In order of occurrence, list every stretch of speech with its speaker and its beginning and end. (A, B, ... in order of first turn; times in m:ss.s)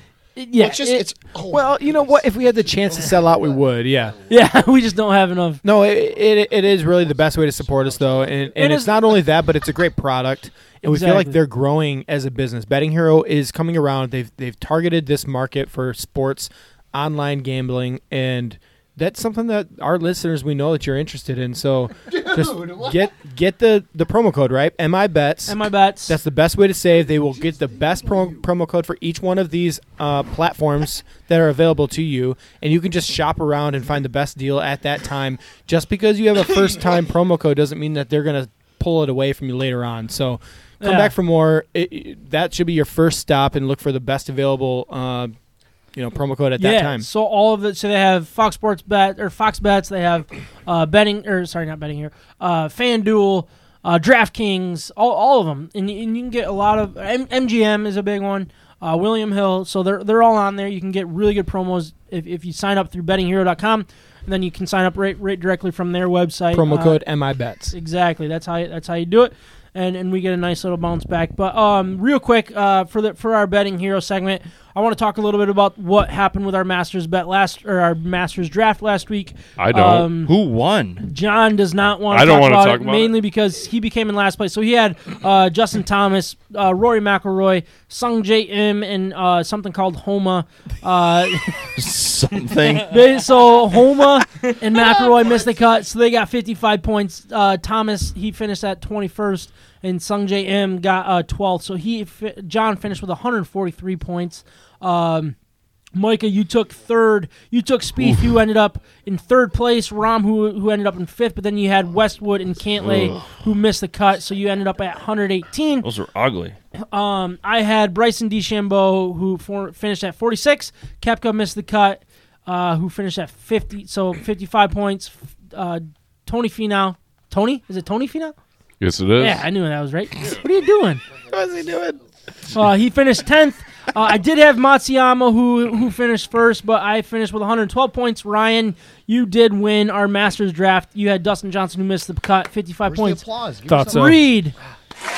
0:00.4-0:01.1 A
0:00.6-0:04.6 B
0:01.5-0:04.2 C
0:04.3-0:05.6 A
0:05.6-0:45.3 C
0:07.3-0:08.3 B
0:08.6-0:09.1 A
0:10.9-0:11.4 A
0:22.1-0:23.0 B
0:25.5-0:26.2 A
0:40.8-0:41.1 A
0:45.9-0:47.1 C
0:46.6-1:07.0 A
1:06.5-1:07.7 C
1:07.7-1:20.3 A
1:19.6-1:20.1 D
1:20.2-1:21.0 E
1:21.0-1:31.5 A
1:22.1-1:23.2 D
1:31.8-1:32.9 E
1:32.8-1:45.4 A
1:45.9-1:55.9 A
1:52.8-1:53.1 D
1:55.8-1:56.6 E
1:56.8-2:08.4 A
2:08.8-2:09.4 D
2:09.2-2:11.0 A
2:11.3-2:12.0 C
2:12.5-2:23.2 A
2:22.8-2:24.2 B
2:23.7-2:24.2 C
2:23.8-2:24.5 A